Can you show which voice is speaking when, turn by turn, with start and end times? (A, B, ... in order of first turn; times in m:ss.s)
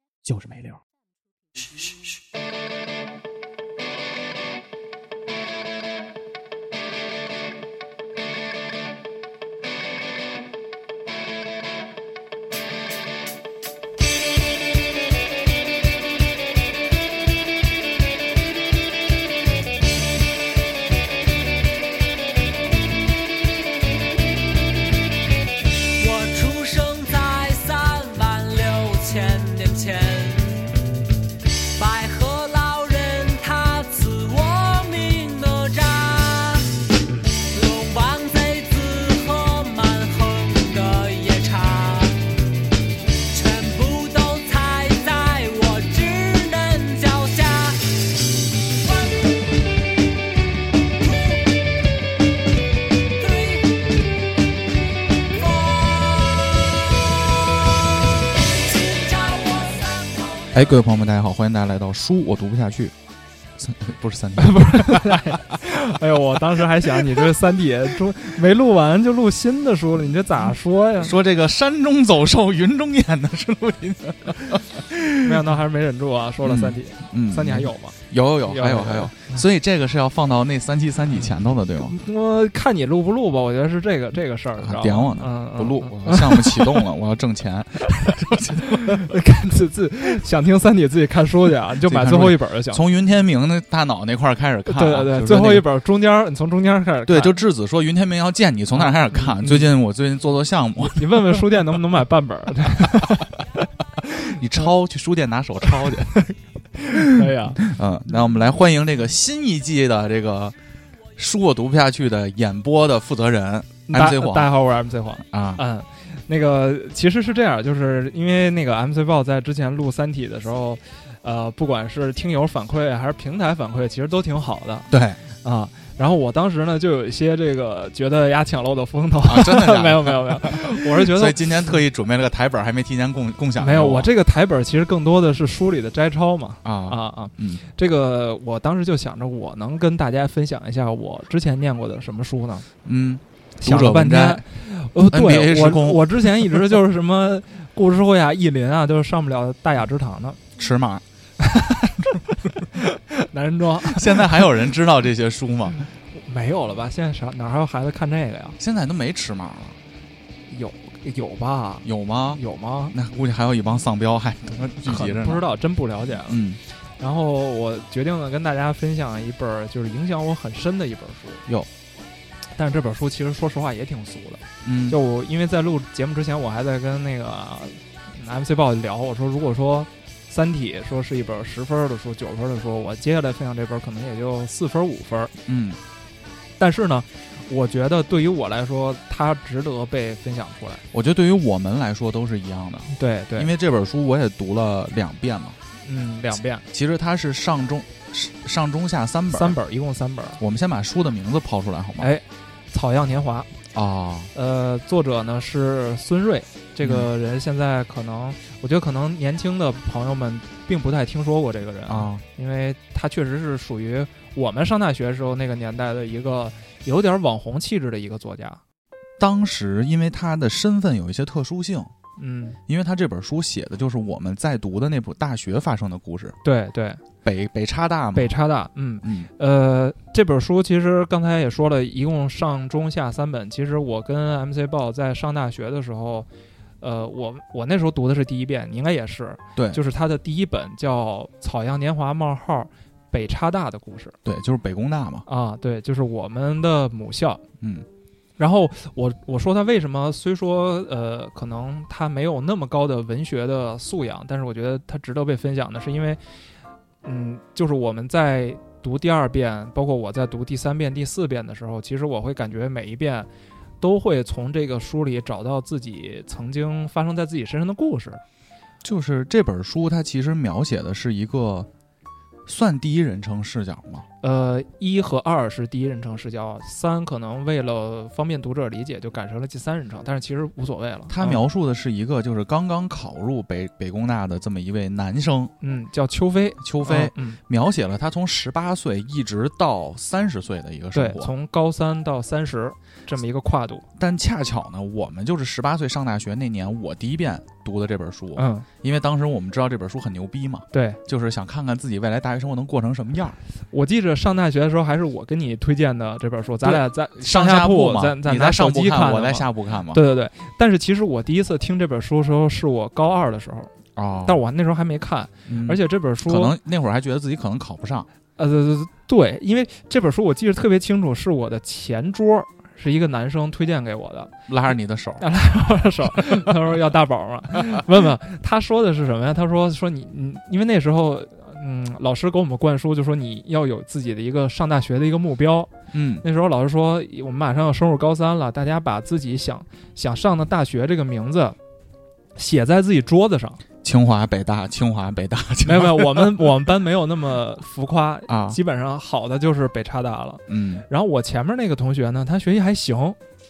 0:00.2-0:00.8 A
0:26.0-0:30.7 B
0:31.7-0:36.9 B
0:37.4-0:42.3 B
0:43.3-0:48.1 B
0:48.9-0:49.3 B
0:53.2-0:54.1 B
0:55.1-1:00.8 B
1:00.5-1:02.9 A
1:03.6-1:05.4 A
1:04.4-1:11.2 C
1:06.8-1:07.2 A
1:11.0-1:15.4 A
1:15.2-1:19.4 C
1:16.4-1:22.0 A
1:21.8-1:26.8 C
1:24.6-1:29.1 A
1:28.6-1:32.8 C
1:31.8-1:35.7 A
1:34.7-1:37.4 C
1:37.1-1:41.4 A
1:38.8-1:39.7 C
1:40.8-1:43.4 C
1:44.0-1:46.2 A
1:46.1-1:47.7 C
1:46.9-1:50.6 A
1:51.2-1:54.6 A
1:53.9-2:11.8 C
1:55.3-1:55.6 A
2:04.9-2:05.2 A
2:09.2-2:14.1 A
2:13.6-2:22.7 C
2:16.6-2:17.6 A
2:22.8-2:24.5 A
2:23.6-2:30.4 C
2:25.1-2:26.8 A
2:30.6-2:31.0 A
2:31.4-2:34.5 C
2:33.8-2:35.9 A
2:36.2-2:38.6 C
2:38.6-2:39.8 A
2:40.5-2:43.0 C
2:41.8-2:45.5 A
2:44.8-2:46.4 C
2:46.2-2:46.6 A
2:47.0-2:51.4 C
2:52.6-3:05.3 C
2:54.6-2:55.0 A
3:05.5-3:05.8 A
3:06.6-3:10.8 C
3:10.9-3:15.6 A
3:12.9-3:13.5 C
3:15.8-3:16.6 C
3:16.7-3:19.6 A
3:19.3-3:20.4 C
3:20.4-3:22.1 A
3:22.0-3:23.5 C
3:23.7-3:24.3 A
3:24.3-3:38.6 C
3:26.8-3:27.1 A
3:31.9-3:32.2 A
3:39.2-3:41.9 A
3:42.2-3:42.6 C
3:42.7-3:46.4 A
3:46.4-3:47.0 C
3:47.2-3:48.3 A
3:48.2-3:56.3 C
3:49.0-3:49.3 A
3:56.8-4:04.2 C
4:04.2-4:05.3 A
4:05.3-4:07.4 C
4:07.6-4:07.9 A
4:08.4-4:16.2 C
4:17.0-4:23.3 C
4:23.8-4:28.2 C
4:28.8-4:31.7 A
4:32.5-4:34.0 A
4:34.2-4:41.4 C
4:41.1-4:45.5 A
4:45.6-4:47.4 C
4:46.6-4:51.3 A
4:50.9-4:53.9 C
4:54.0-5:03.4 A
4:58.4-4:58.7 C
5:00.7-5:01.0 C
5:03.7-5:13.7 C
5:06.6-5:10.0 A
5:14.0-5:14.4 A
5:14.2-5:16.6 C
5:15.5-5:18.1 A
5:18.4-5:24.3 C
5:24.5-5:25.3 A
5:25.2-5:35.7 C
5:26.1-5:26.5 A
5:35.9-5:36.2 A
5:36.2-5:41.6 C
5:42.4-5:43.6 C
5:43.8-5:46.5 A
5:45.6-5:53.2 C
5:48.3-5:48.6 A
5:50.5-5:50.8 A